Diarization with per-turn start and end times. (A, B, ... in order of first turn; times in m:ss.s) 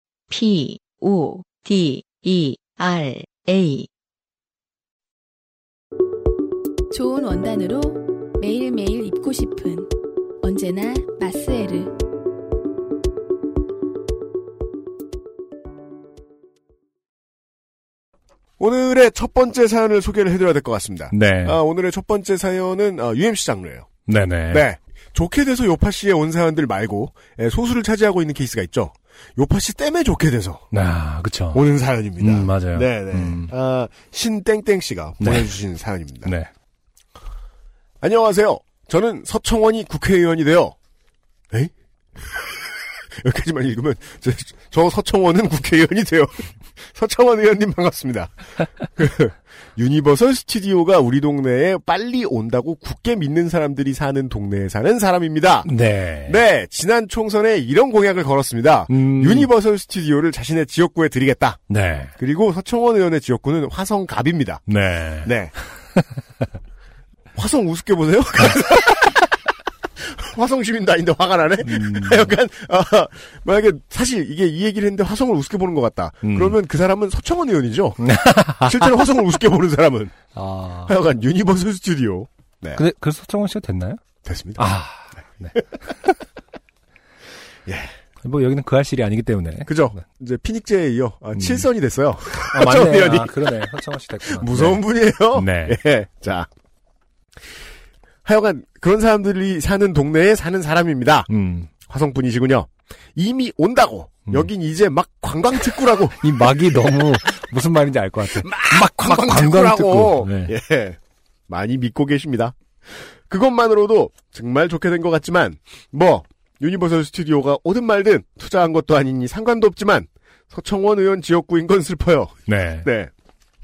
0:00.3-0:03.9 A
0:06.9-0:12.0 B
0:18.6-0:23.9 C
0:21.1-0:21.6 D
0:24.0-0:24.6 D
0:24.5-0:30.6 C
0:30.7-0:31.6 D
0:31.5-0:36.3 C
0:32.2-0:33.5 D
0:35.2-0:35.5 D
0:36.2-0:36.5 D
0:38.0-0:40.7 C
0:41.5-0:42.7 C
0:43.2-0:55.7 C
0:55.6-0:56.4 D
0:56.2-1:01.6 C
0:58.9-0:59.5 D
1:01.7-1:02.1 D
1:02.2-1:04.7 C
1:04.7-1:05.3 D
1:05.2-1:05.5 C
1:07.3-1:09.2 C
1:10.0-1:20.2 C
1:11.6-1:12.3 D
1:16.2-1:16.6 D
1:18.0-1:18.9 D
1:20.3-1:20.9 D
1:20.8-1:22.8 C
1:22.8-1:24.0 D
1:24.2-1:24.6 C
1:24.6-1:25.9 D
1:28.2-1:30.0 D
1:29.6-1:33.5 C
1:31.3-1:31.7 D
1:32.5-1:34.8 D
1:34.2-1:36.5 C
1:35.3-1:35.8 D
1:38.2-1:41.3 C
1:41.3-1:41.7 D
1:41.8-1:46.2 C
1:46.2-1:50.5 D
1:48.2-1:51.0 C
1:51.5-1:52.6 C
1:53.3-2:03.1 C
2:02.5-2:02.9 D